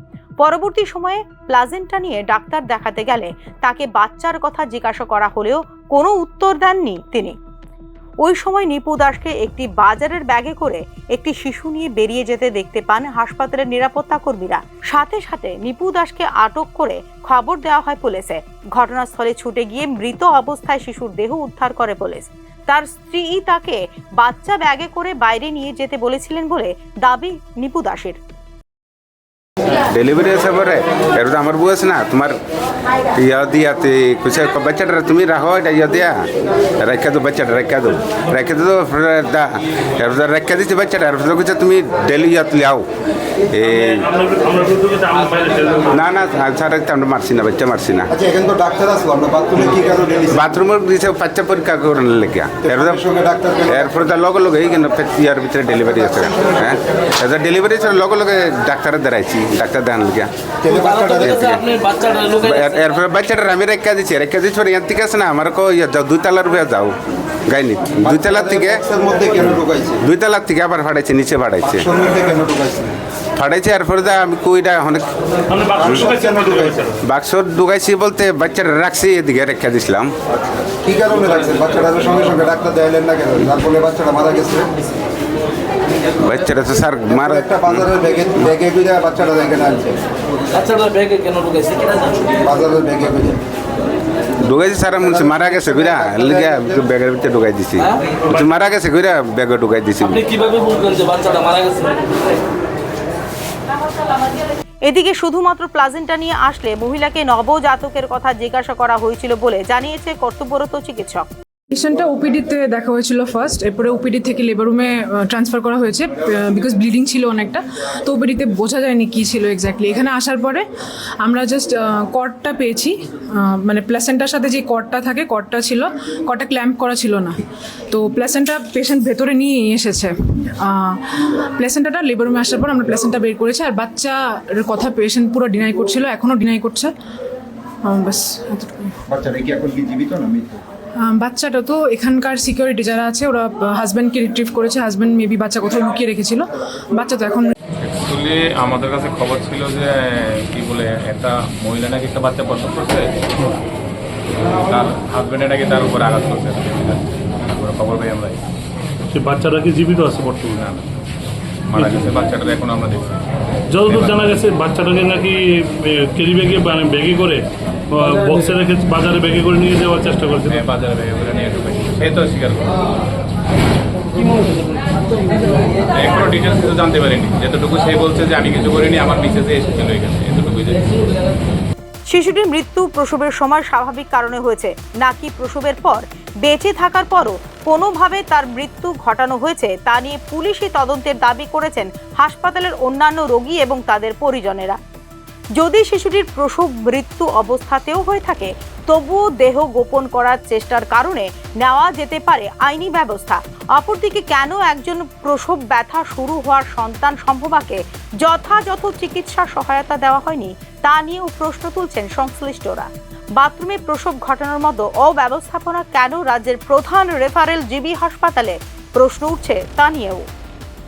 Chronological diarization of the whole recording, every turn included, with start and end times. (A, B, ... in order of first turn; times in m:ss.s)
0:00.4-0:07.4 A
0:08.2-0:28.2 A
0:29.7-0:32.4 B
0:33.1-0:36.3 B
0:36.8-0:42.8 B
0:43.5-0:44.1 B
0:43.9-0:46.0 C
0:45.9-0:48.1 B
0:48.1-0:50.4 D
0:50.3-0:53.0 B
0:52.7-0:53.9 D
0:53.7-1:00.3 B
1:00.6-1:01.4 D
1:01.2-1:01.7 B
1:01.6-1:02.4 E
1:02.4-1:07.0 B
1:07.5-1:08.8 B
1:08.0-1:10.0 D
1:09.4-1:11.9 B
1:11.7-1:13.0 D
1:13.4-1:15.1 B
1:15.5-1:16.9 C
1:15.8-1:16.9 D
1:17.0-1:20.2 B
1:20.7-1:24.7 D
1:26.2-1:27.9 B
1:27.2-1:30.0 D
1:30.5-1:32.2 E
1:32.4-1:33.4 D
1:34.4-1:40.3 B
1:40.4-1:42.0 E
1:44.9-1:51.3 A
1:51.7-2:00.7 F
2:01.2-2:16.9 F
2:17.8-2:18.9 F
2:19.1-2:20.6 D
2:21.0-2:27.5 F
2:27.8-2:33.2 G
2:34.4-2:38.4 G
2:39.1-2:40.9 C
2:41.7-2:43.2 G
2:41.8-2:42.1 C
2:43.7-2:50.6 C
2:43.8-2:44.4 G
2:50.5-2:52.9 G
2:55.9-3:01.0 G
3:02.1-3:14.8 A
3:15.6-3:40.3 A